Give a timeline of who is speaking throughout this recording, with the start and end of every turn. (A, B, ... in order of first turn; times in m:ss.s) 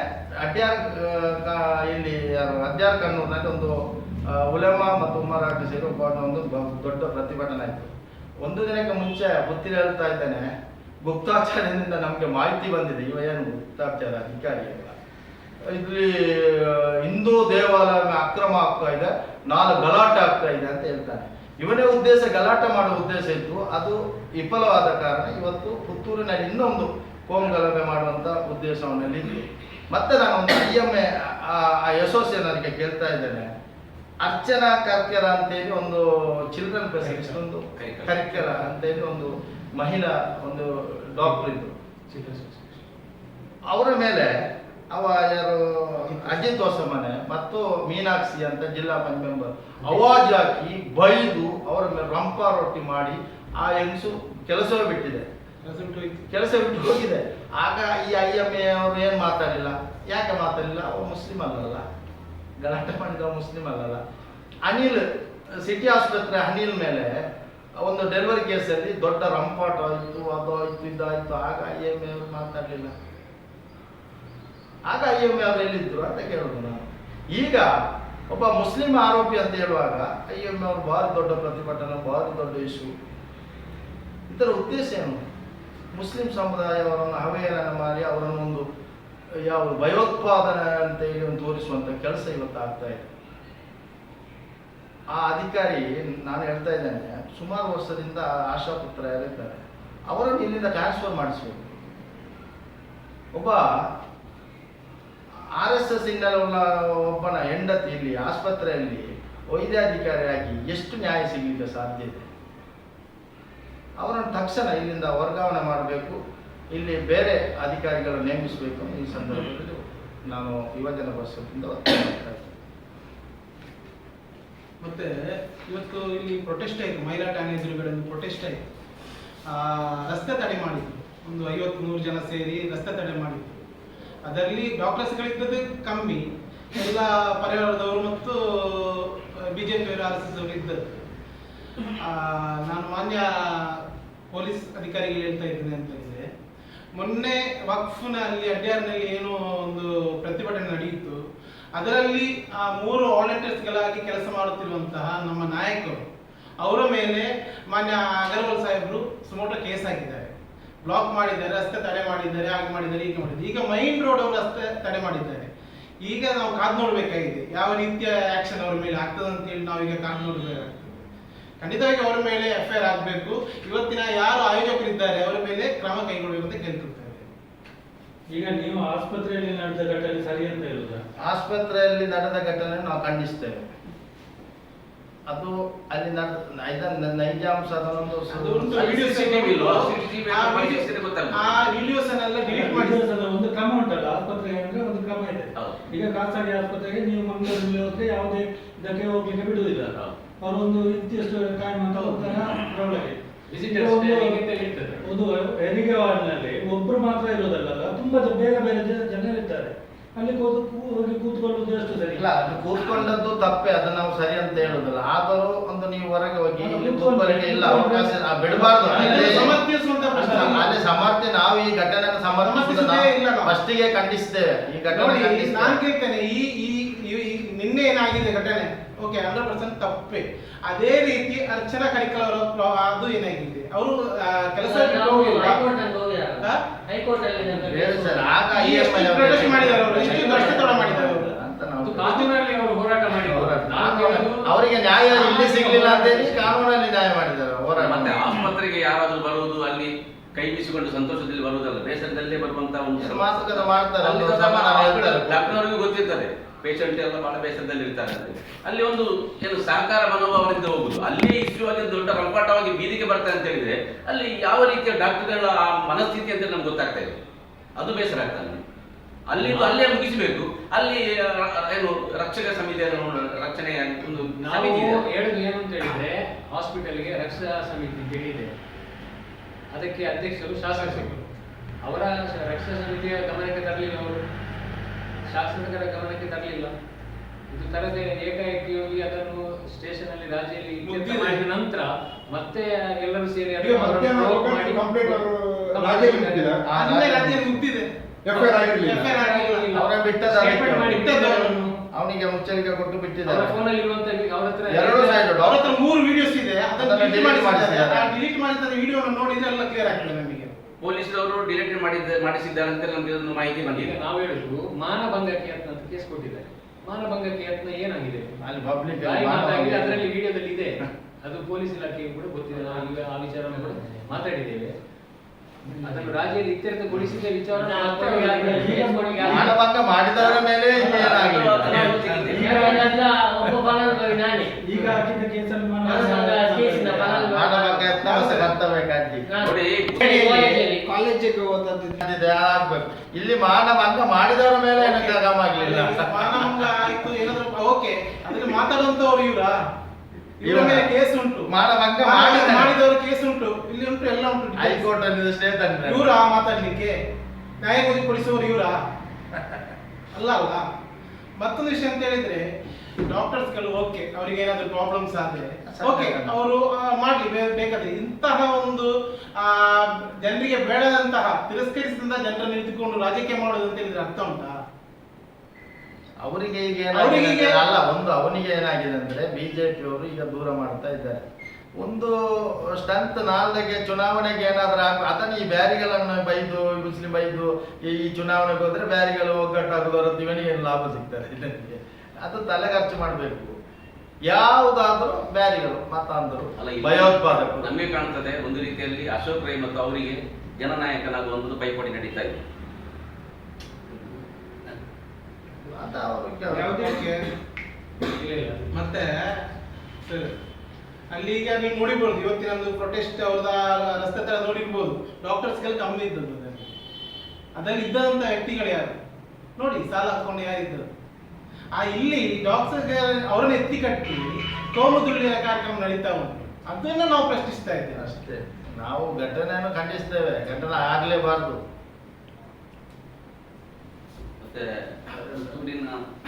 0:00.4-0:03.8 A
0:04.3-0:07.9 A
0:08.4-0:10.4 A
0:11.0-0:15.0 A
0:15.6-0:33.5 A
0:34.2-0:41.7 A
0:37.0-0:37.4 B
0:37.8-0:38.2 C
0:42.1-0:42.8 B
0:43.7-0:44.3 A
0:44.9-0:55.3 A
0:46.1-0:46.5 D
0:55.6-0:56.2 D
0:56.3-1:01.8 A
1:02.6-1:04.0 A
1:04.6-1:05.0 A
1:05.6-1:07.2 A
1:07.8-1:12.9 A
1:14.9-1:17.7 A
1:18.3-1:22.9 A
1:24.3-1:25.2 A
1:25.9-1:28.7 A
1:29.4-1:33.1 A
1:35.1-1:41.7 A
1:43.3-1:43.6 A
1:45.6-1:52.3 A
1:54.0-1:56.2 A
1:56.7-2:02.5 A
2:04.8-2:08.6 D
2:09.5-2:13.6 D
2:14.2-2:16.2 D
2:16.7-2:21.0 D
2:22.0-2:26.2 D
2:26.9-2:31.2 D
2:31.7-2:36.0 D
2:36.6-2:40.3 D
2:40.8-2:45.5 D
2:46.0-2:51.0 D
2:51.6-2:57.2 D
2:58.3-3:01.0 E
3:01.2-3:03.7 A
3:05.3-3:08.8 A
3:08.3-3:13.0 D
3:08.7-3:11.8 C
3:12.4-3:24.5 E
3:22.0-3:22.3 D
3:23.5-3:25.1 B
3:25.0-3:32.3 E
3:32.2-3:39.6 A
3:36.6-3:40.6 E
3:39.0-3:40.7 D
3:40.2-3:45.8 A
3:42.4-3:43.5 D
3:44.9-3:55.7 D
3:54.6-3:58.3 F
3:57.5-4:02.3 A
3:58.5-4:01.3 D
3:59.9-4:00.9 B
4:01.8-4:06.5 B
4:03.2-4:08.4 A
4:07.8-4:27.2 C
4:12.9-4:15.6 A
4:27.8-4:28.6 C
4:29.3-4:35.0 C
4:29.4-4:29.9 B
4:34.4-4:38.5 B
4:39.7-4:41.2 B
4:40.7-4:41.2 D
4:41.8-4:44.2 B
4:45.3-4:46.7 B
4:47.5-4:56.6 B
4:50.8-4:51.4 D
4:53.6-4:56.7 G
4:56.6-4:57.6 A
4:56.7-4:57.9 D
4:58.2-4:59.2 G
4:58.3-4:59.9 B
4:58.4-4:59.1 A
4:58.6-4:59.7 D
4:59.7-5:01.0 A
5:00.3-5:01.7 D
5:00.6-5:01.8 B
5:01.9-5:03.6 A
5:03.2-5:05.3 B
5:04.7-5:05.6 A
5:05.4-5:10.6 D
5:06.8-5:08.1 A
5:10.8-5:14.0 C
5:13.7-5:18.3 B
5:18.4-5:20.1 A
5:18.9-5:24.7 B
5:25.8-5:29.5 B
5:27.6-5:29.5 F
5:28.3-5:29.4 E
5:29.2-5:32.3 A
5:30.2-5:32.5 C
5:31.7-5:33.7 E
5:32.4-5:35.0 F
5:34.6-5:37.3 E
5:35.8-5:38.0 F
5:37.3-5:39.2 A
5:38.0-5:38.5 D
5:39.3-5:40.9 F
5:39.4-5:40.2 C
5:40.0-5:41.9 G
5:42.0-5:46.6 A
5:44.8-5:49.5 D
5:50.4-5:51.5 D
5:50.4-5:50.9 A
5:51.5-5:52.7 A
5:52.0-5:54.9 D
5:54.6-5:56.1 A
5:55.9-5:57.0 D
5:57.6-5:58.8 D
6:00.1-6:00.6 D
6:01.4-6:02.5 D
6:03.0-6:14.6 D
6:05.6-6:06.4 A
6:16.2-6:21.2 A
6:16.9-6:17.6 D
6:21.8-6:33.5 A
6:34.3-6:37.7 A
6:36.6-6:42.4 C
6:43.9-6:44.2 C
6:45.6-6:47.0 A
6:46.5-6:47.2 D
6:48.0-6:48.7 B
6:48.7-6:49.3 D
6:50.0-6:50.3 D
6:51.1-6:56.7 D
6:57.5-6:59.0 D
6:59.6-7:00.9 D
7:01.7-7:08.1 D
7:08.0-7:11.6 A
7:14.4-7:16.0 C